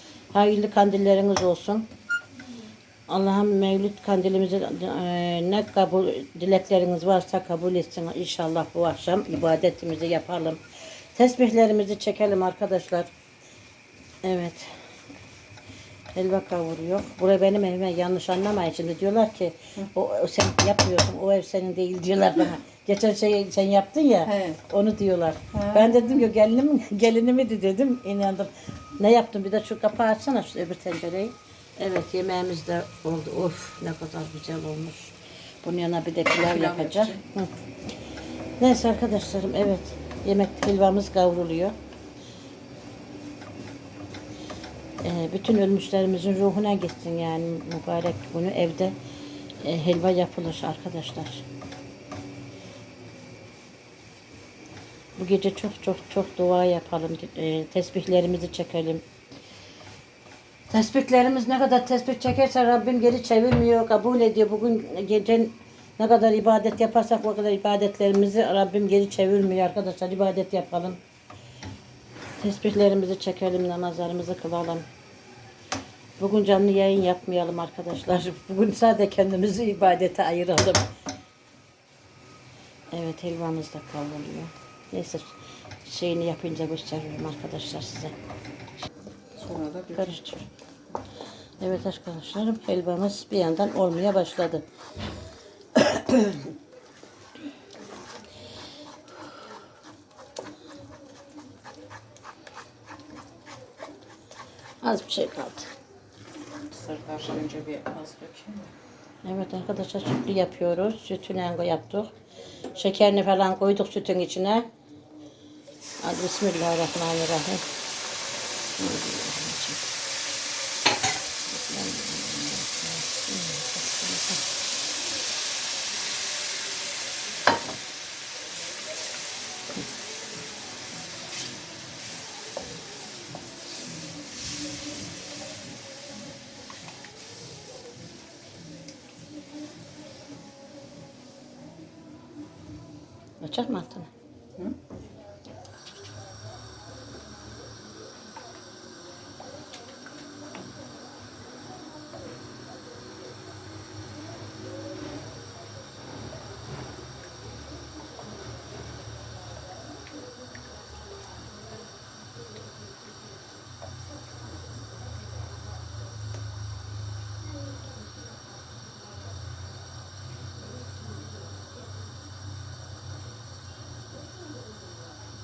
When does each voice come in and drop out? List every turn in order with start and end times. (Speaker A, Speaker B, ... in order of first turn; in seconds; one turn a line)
Speaker A: 0.3-1.9
Speaker A: 3.1-10.6
Speaker A: 11.1-13.1
Speaker A: 14.2-14.7
Speaker A: 16.1-37.5
Speaker B: 24.3-24.6
Speaker B: 25.5-25.9
Speaker B: 36.4-37.2
Speaker A: 38.6-41.7
Speaker A: 45.0-49.0
Speaker A: 49.6-51.5
Speaker A: 55.2-59.0
Speaker A: 60.7-71.0
Speaker A: 72.4-74.9
Speaker A: 76.2-80.8
Speaker A: 82.9-88.1
Speaker B: 89.3-90.2
Speaker A: 90.0-90.5
Speaker A: 91.6-94.6
Speaker A: 95.8-96.4
Speaker A: 104.8-105.7
Speaker B: 106.7-108.7
Speaker A: 109.2-112.1
Speaker A: 112.7-114.7
Speaker A: 116.0-117.7
Speaker A: 118.8-119.9
Speaker A: 121.5-124.4
Speaker A: 143.4-144.1